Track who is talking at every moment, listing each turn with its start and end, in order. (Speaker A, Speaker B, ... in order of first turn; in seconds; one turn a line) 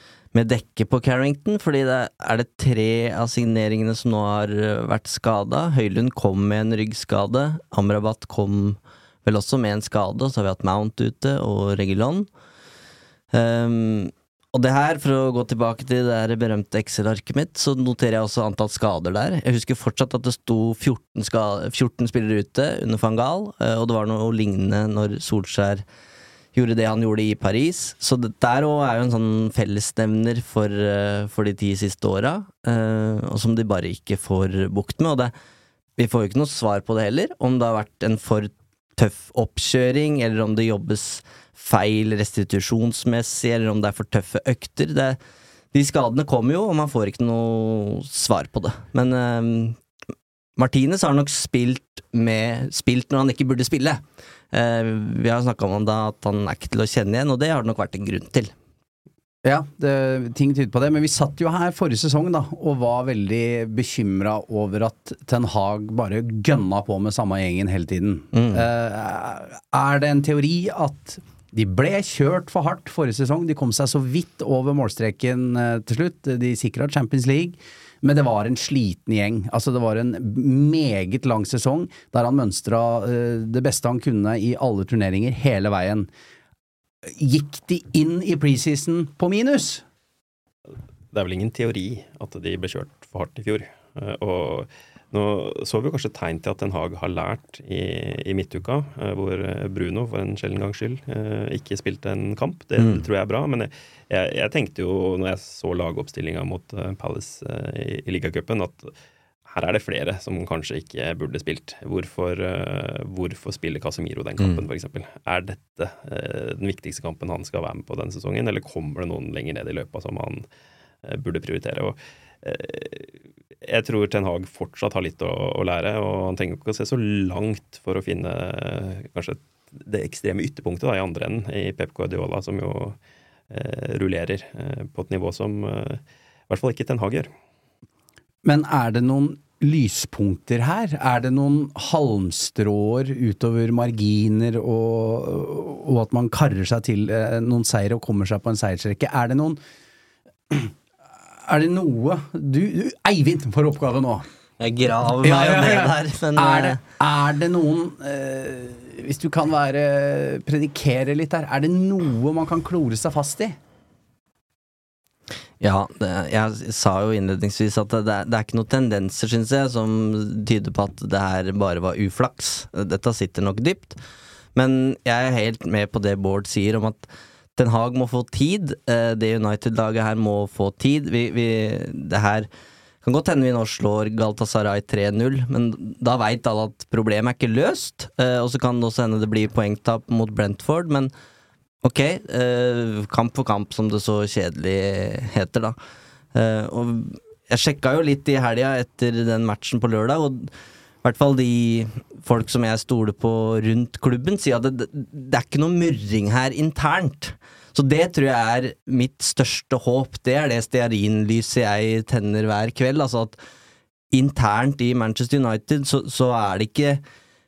Speaker A: 0.3-12.3
Speaker A: 13.3-25.8
Speaker A: 26.5-35.3
Speaker A: 36.0-45.2
Speaker A: 45.7-49.8
Speaker A: 50.6-58.5
Speaker B: 59.4-86.1
Speaker A: 68.3-68.6
Speaker B: 87.1-89.8
Speaker C: 91.1-108.9
Speaker A: 102.8-103.0
Speaker C: 109.5-120.4
Speaker C: 121.0-133.0
Speaker C: 133.5-137.3
Speaker B: 138.4-149.6
Speaker B: 151.4-154.2
Speaker A: 154.6-156.8
Speaker B: 155.2-163.6
Speaker A: 165.6-174.0
Speaker A: 174.5-182.5
Speaker A: 183.0-191.1
Speaker A: 191.8-195.8
Speaker A: 196.3-200.5
Speaker A: 201.0-213.4
Speaker A: 214.1-217.0